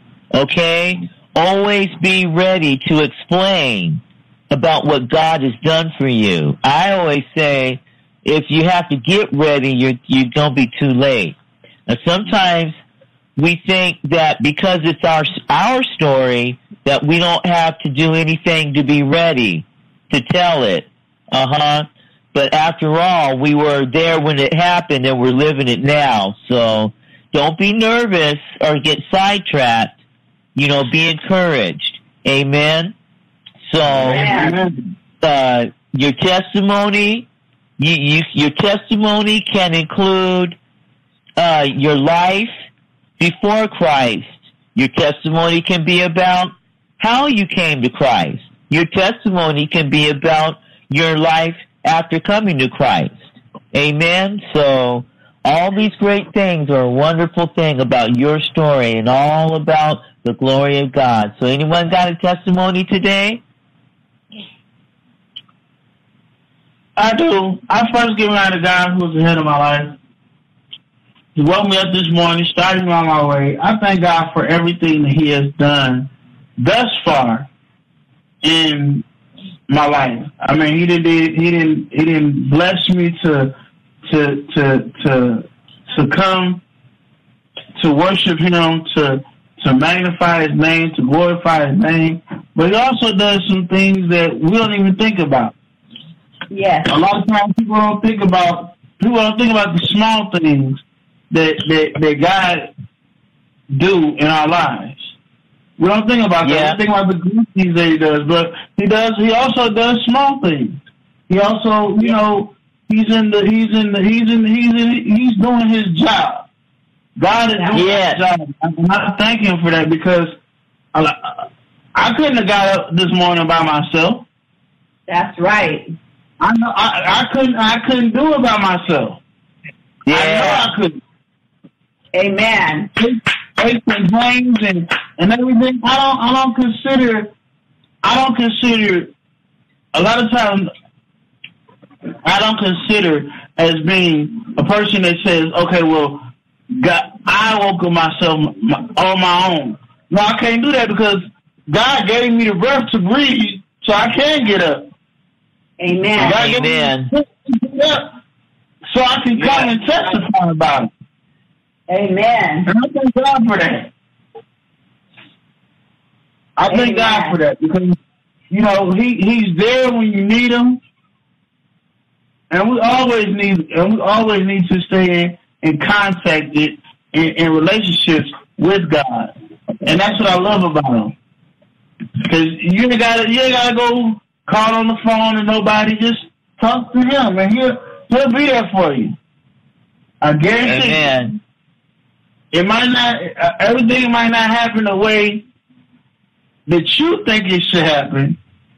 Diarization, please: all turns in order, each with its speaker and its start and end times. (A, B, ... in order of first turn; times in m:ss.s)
0:00.3-0:12.7 A
0:13.4-0:29.9 A
0:30.6-0:32.9 A
0:33.7-0:34.5 A
0:34.0-0:34.6 B
0:34.2-0:34.7 C
0:35.2-0:40.6 A
0:41.4-0:42.5 A
0:43.2-0:53.2 A
0:53.7-1:03.4 A
1:07.0-1:10.0 C
1:11.3-1:17.5 C
1:18.4-1:19.0 C
1:19.7-1:23.5 C
1:24.0-1:26.6 C
1:27.8-1:35.5 C
1:36.5-1:36.9 B
1:36.9-1:42.7 C
1:43.7-1:45.0 C
1:45.8-1:56.5 C
1:46.4-1:46.8 A
1:57.2-2:00.3 C
1:57.5-1:57.8 B
1:57.7-1:58.2 A
2:00.9-2:04.2 C
2:05.1-2:05.9 B
2:06.4-2:09.2 C
2:10.0-2:10.7 A
2:10.1-2:11.0 C
2:12.1-2:12.9 B
2:13.0-2:17.3 C
2:18.0-2:19.1 C
2:19.9-2:20.7 C
2:22.2-2:26.2 C
2:26.8-2:34.9 C
2:35.8-2:36.4 B
2:36.2-2:37.1 A
2:36.2-2:38.1 C
2:38.9-2:40.9 C
2:41.9-2:42.7 B
2:42.7-2:43.9 C
2:46.6-2:48.0 C
2:46.7-2:47.4 B
2:48.5-2:50.8 C
2:52.5-2:59.3 C
2:59.8-3:01.1 C
3:02.3-3:09.2 C
3:10.2-3:11.1 C
3:10.6-3:11.4 A
3:12.5-3:15.4 C
3:16.7-3:18.4 C